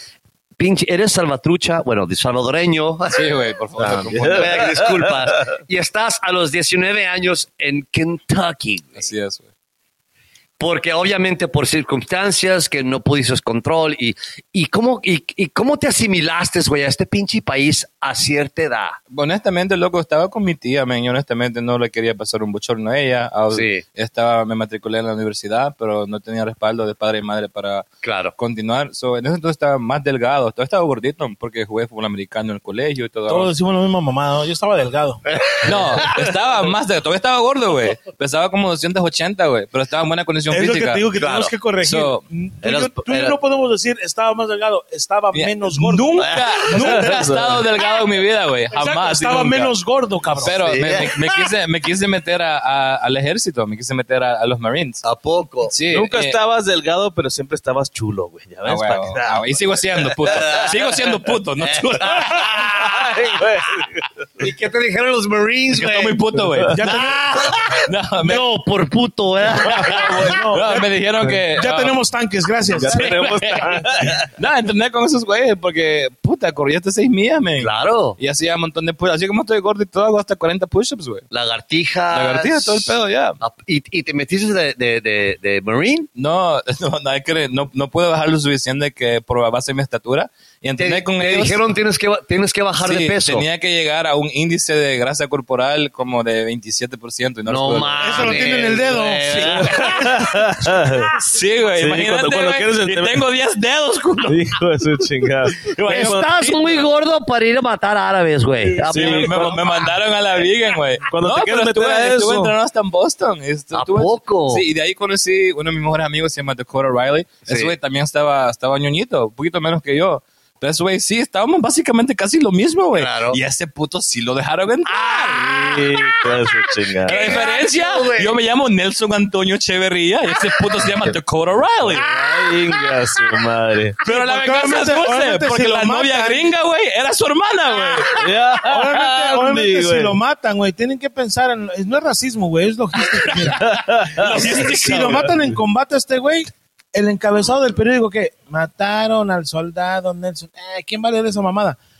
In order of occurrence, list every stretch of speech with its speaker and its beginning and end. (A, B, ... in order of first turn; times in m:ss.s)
0:00.6-0:03.3 A
0:03.1-0:04.8 B
0:03.8-0:05.2 C
0:04.3-0:09.0 A
0:09.0-0:09.4 B
0:10.6-0:19.0 A
0:19.1-0:33.5 B
0:23.5-0:23.8 A
0:28.0-0:28.3 A
0:33.3-0:35.2 D
0:35.3-0:36.1 A
0:35.6-0:41.1 B
0:40.5-0:47.6 D
0:41.2-0:41.5 A
0:41.8-0:42.2 B
0:42.6-0:43.4 A
0:45.3-0:49.7 B
0:46.2-0:46.7 A
0:46.8-0:47.6 C
0:48.7-0:50.6 D
0:50.3-0:55.0 B
0:50.4-0:51.1 A
0:55.0-0:55.7 A
0:55.6-0:56.4 B
0:55.9-1:00.5 C
0:58.6-1:02.5 B
1:00.3-1:01.0 A
1:01.6-1:03.6 A
1:02.7-1:04.1 C
1:04.4-1:06.2 A
1:05.7-1:08.4 B
1:06.7-1:07.6 D
1:06.9-1:10.5 A
1:09.6-1:12.0 B
1:09.8-1:10.9 D
1:11.5-1:13.1 D
1:12.7-1:14.3 C
1:12.9-1:21.2 B
1:17.6-1:18.2 A
1:21.3-1:26.1 A
1:22.1-1:23.4 B
1:26.2-1:31.6 B
1:30.8-1:33.4 A
1:32.8-1:38.5 B
1:37.4-1:40.0 A
1:38.0-1:40.2 D
1:39.6-1:41.2 C
1:39.8-1:40.2 B
1:41.2-1:44.6 B
1:41.7-1:43.2 C
1:44.3-1:46.2 C
1:45.6-1:46.8 B
1:45.9-1:49.6 A
1:48.8-1:49.6 C
1:48.8-2:05.7 B
1:51.1-1:52.5 C
1:53.7-1:54.6 A
1:57.4-1:57.7 A
2:02.9-2:03.4 A
2:04.8-2:06.1 A
2:05.4-2:07.4 C
2:07.0-2:08.4 A
2:07.0-2:12.0 B
2:11.9-2:14.0 C
2:12.0-2:12.3 A
2:14.0-2:16.4 D
2:14.0-2:18.3 B
2:18.1-2:20.2 C
2:18.6-2:31.8 D
2:23.1-2:25.3 B
2:23.6-2:25.3 C